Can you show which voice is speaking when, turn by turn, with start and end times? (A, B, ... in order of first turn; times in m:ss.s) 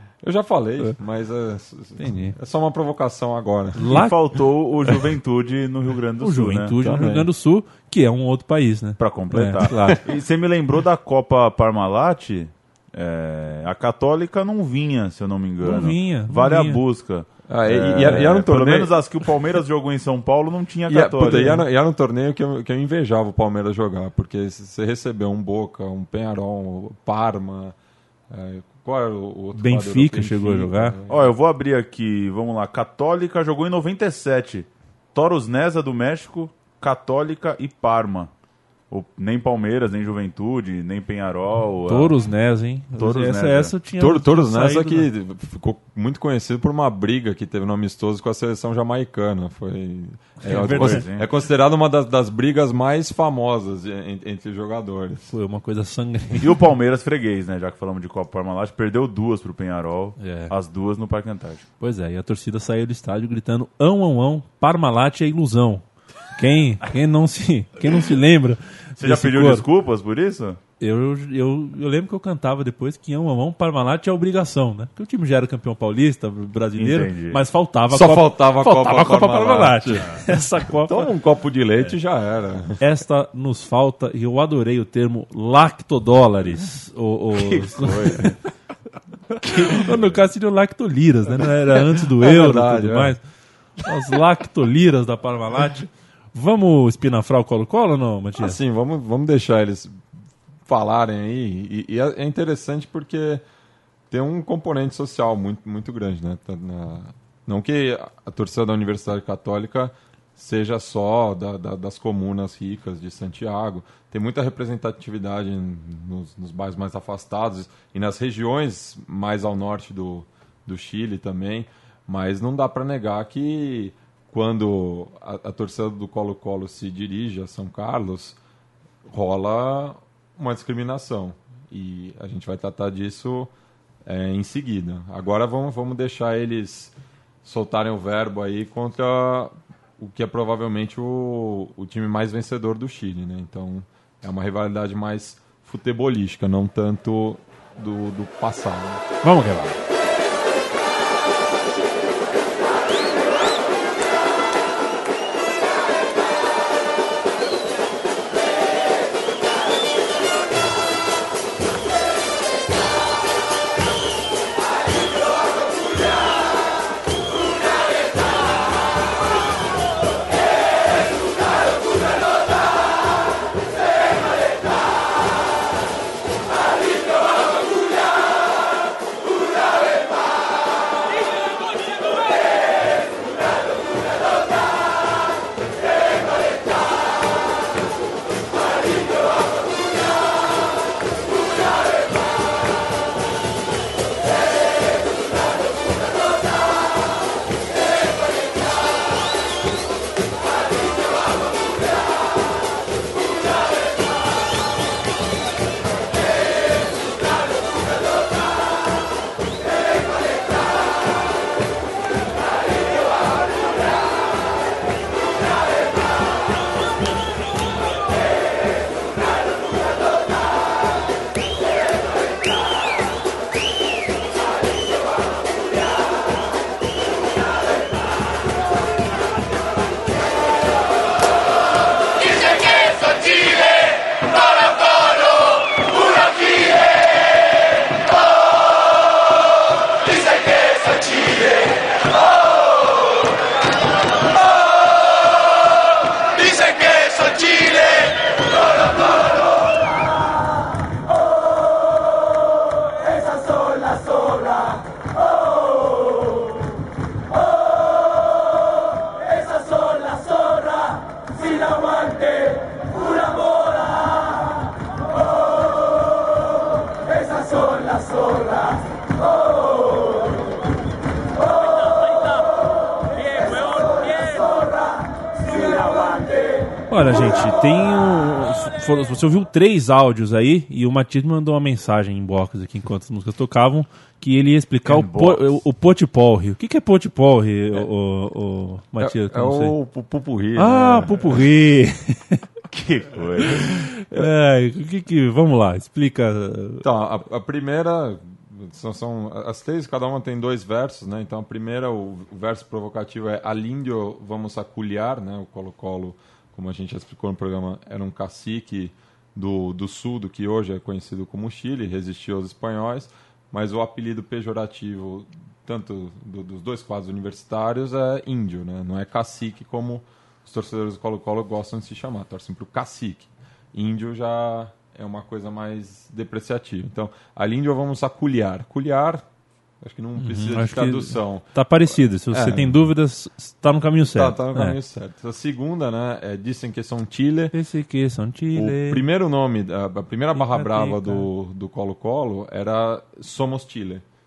0:00.2-0:04.0 A
0:02.0-0:02.4 B
0:03.8-0:04.2 B
0:03.9-0:06.8 C
0:06.2-0:10.0 B
0:06.8-0:07.3 A
0:09.0-0:21.6 C
0:15.6-0:16.8 B
0:17.5-0:19.0 A
0:20.9-0:27.8 A
0:28.3-0:31.3 A
0:29.6-0:31.0 B
0:31.1-0:38.3 C
0:38.9-0:42.2 C
0:41.9-0:45.1 B
0:43.0-0:43.7 C
0:44.0-0:55.3 A
0:50.4-0:51.1 B
0:50.5-0:51.3 C
0:55.3-0:56.5 B
0:56.4-1:01.6 C
1:00.2-1:00.5 B
1:01.8-1:09.6 B
1:09.0-1:10.6 C
1:10.8-1:21.1 B
1:16.8-1:17.4 C
1:17.9-1:20.2 A
1:20.7-1:22.8 A
1:22.8-1:28.3 B
1:27.4-1:28.4 C
1:29.4-1:33.2 B
1:32.1-1:33.2 A
1:33.8-1:38.6 B
1:38.4-1:40.0 A
1:40.6-1:43.4 A
1:44.1-2:08.4 A
2:09.1-2:13.5 A
2:14.0-2:29.0 A
2:29.2-2:29.8 B
4:36.9-4:49.8 B
4:44.8-4:45.6 C
4:49.0-4:51.4 A
4:50.6-4:52.4 B
4:52.7-4:53.7 C
4:53.5-4:56.8 B
4:56.8-5:29.2 A
5:29.8-5:32.9 A
5:30.2-5:34.8 B
5:34.1-5:37.6 A
5:37.5-5:39.0 B
5:38.5-5:44.0 A
5:40.4-5:41.3 B